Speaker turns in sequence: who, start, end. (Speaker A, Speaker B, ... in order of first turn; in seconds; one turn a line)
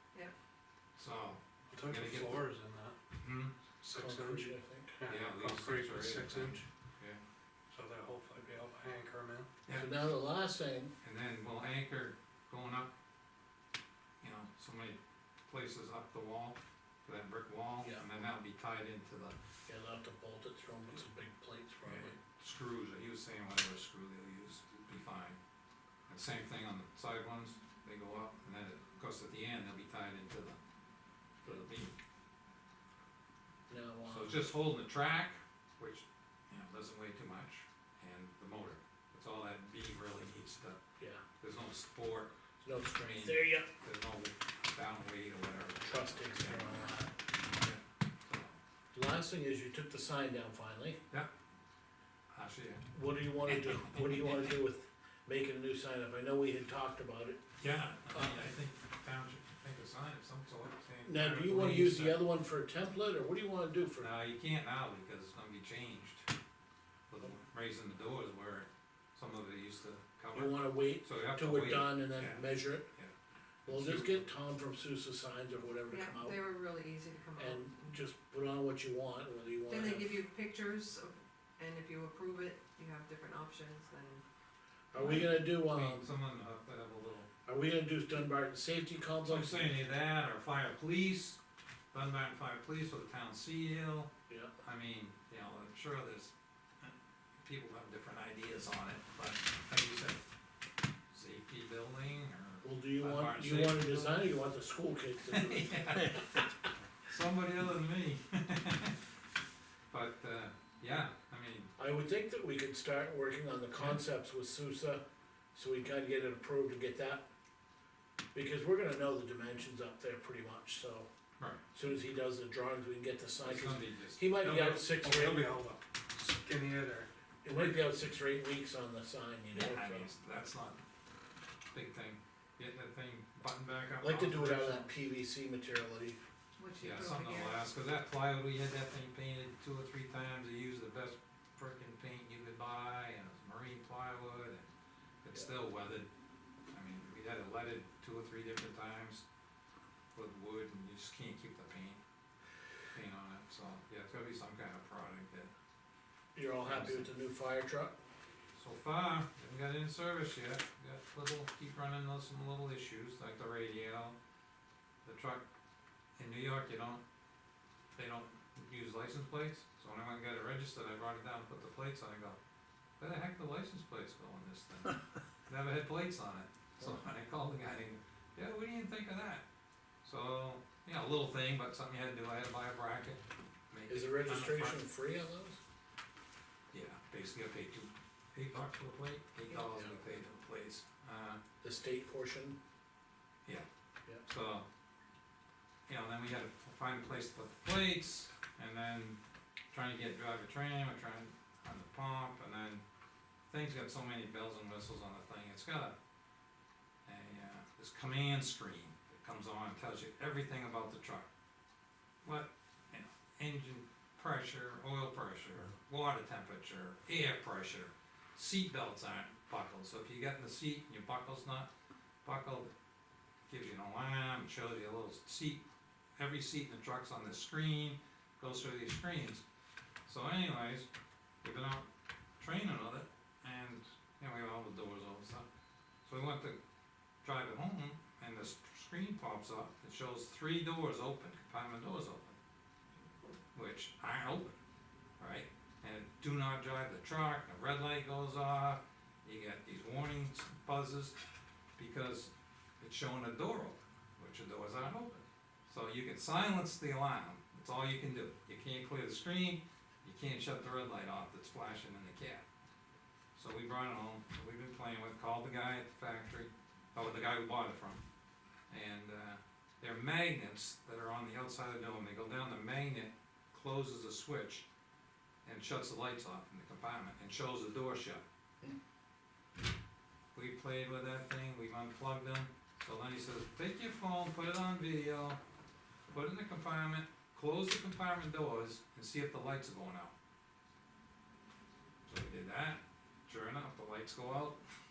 Speaker A: 1.0-2.4
Speaker B: 1.7-3.0
Speaker A: 3.2-3.5
Speaker B: 3.8-6.6
Speaker C: 3.9-4.9
Speaker A: 5.1-7.2
Speaker B: 7.7-9.5
Speaker A: 9.7-9.9
Speaker C: 9.7-10.9
Speaker A: 11.0-12.9
Speaker A: 14.2-19.4
Speaker C: 17.8-18.1
Speaker C: 19.7-22.2
Speaker A: 21.8-25.4
Speaker A: 26.1-30.6
Speaker A: 31.4-31.9
Speaker C: 33.7-34.4
Speaker A: 34.1-40.8
Speaker A: 41.4-48.6
Speaker C: 42.6-43.7
Speaker C: 45.8-47.1
Speaker C: 48.9-51.0
Speaker A: 52.3-52.9
Speaker C: 52.9-57.4
Speaker A: 53.4-54.6
Speaker A: 57.6-62.2
Speaker C: 58.1-58.4
Speaker C: 61.0-64.1
Speaker A: 64.0-66.3
Speaker A: 67.1-73.1
Speaker C: 70.3-72.8
Speaker A: 73.7-74.3
Speaker C: 73.7-76.4
Speaker D: 75.9-78.0
Speaker C: 77.4-80.2
Speaker D: 79.7-84.2
Speaker C: 84.9-86.1
Speaker A: 85.0-87.3
Speaker C: 87.5-89.8
Speaker A: 89.2-91.4
Speaker A: 91.9-100.2
Speaker A: 101.1-104.3
Speaker C: 102.6-106.2
Speaker A: 105.3-106.5
Speaker A: 107.0-109.0
Speaker A: 109.9-111.7
Speaker C: 111.8-115.0
Speaker C: 115.5-117.2
Speaker C: 118.3-121.1
Speaker C: 121.7-125.5
Speaker A: 123.4-124.4
Speaker B: 124.4-127.9
Speaker C: 127.4-130.1
Speaker A: 129.5-130.8
Speaker A: 131.7-134.9
Speaker C: 134.0-136.2
Speaker D: 136.6-137.7
Speaker A: 136.8-144.6
Speaker A: 145.2-146.1
Speaker A: 146.7-149.2
Speaker A: 150.1-152.0
Speaker A: 152.9-155.5
Speaker C: 156.3-157.9
Speaker A: 156.6-157.1
Speaker A: 158.5-164.1
Speaker A: 165.0-165.4
Speaker A: 166.2-167.0
Speaker A: 167.9-172.4
Speaker A: 173.0-179.4
Speaker A: 180.0-184.8
Speaker C: 183.9-185.6
Speaker A: 186.7-191.4
Speaker C: 191.6-192.6
Speaker A: 194.2-194.7
Speaker A: 195.9-199.2
Speaker A: 199.7-202.8
Speaker A: 203.5-205.9
Speaker A: 207.0-211.3
Speaker A: 212.2-221.7
Speaker A: 222.2-222.7
Speaker A: 223.5-225.6
Speaker A: 226.2-229.4
Speaker A: 230.1-230.9
Speaker A: 231.4-231.8
Speaker A: 232.4-235.4
Speaker A: 236.0-236.6
Speaker A: 237.2-242.4
Speaker A: 243.5-244.6
Speaker A: 245.2-251.2
Speaker A: 251.8-262.4
Speaker A: 263.3-268.0
Speaker A: 268.7-274.6
Speaker A: 275.4-278.2
Speaker A: 280.3-285.4
Speaker A: 286.1-290.1
Speaker A: 292.1-294.6